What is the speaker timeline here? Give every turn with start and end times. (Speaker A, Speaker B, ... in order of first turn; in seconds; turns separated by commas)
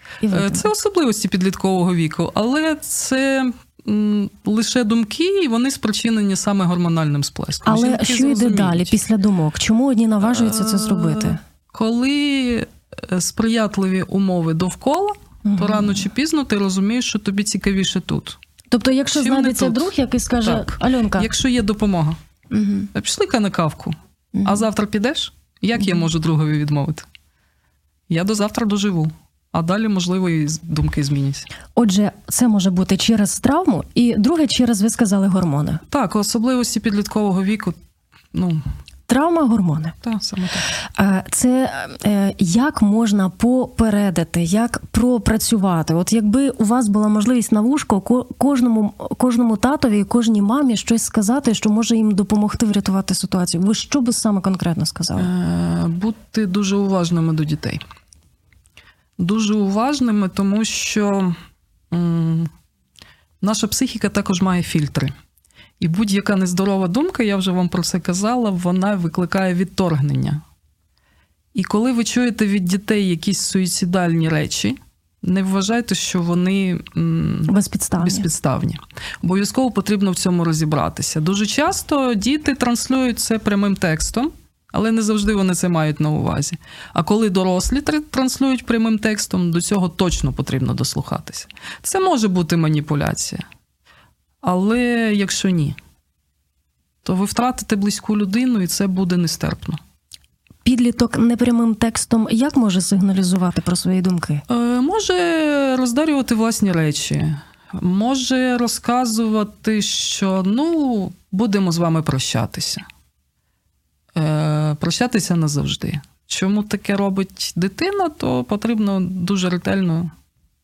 Speaker A: 0.2-0.7, Speaker B: 0.3-9.0, Speaker A: 7.7-11.4, Speaker B: 10.2-18.4, Speaker A: 15.4-16.1, Speaker A: 18.7-21.3, Speaker B: 19.1-22.2, Speaker A: 22.5-22.9, Speaker B: 22.9-27.1, Speaker A: 24.3-24.7, Speaker B: 28.1-31.5, Speaker A: 31.8-35.8, Speaker B: 35.9-37.8, Speaker B: 38.3-38.6, Speaker A: 39.1-40.0, Speaker B: 40.0-40.7, Speaker A: 40.8-55.3, Speaker B: 55.2-57.8, Speaker B: 59.2-61.4, Speaker B: 61.9-62.5, Speaker B: 63.4-65.1, Speaker B: 65.8-70.4, Speaker B: 71.5-93.4, Speaker A: 77.5-78.3, Speaker B: 94.4-95.8, Speaker B: 97.0-99.8, Speaker A: 100.7-104.4, Speaker B: 104.5-112.8, Speaker B: 114.2-120.1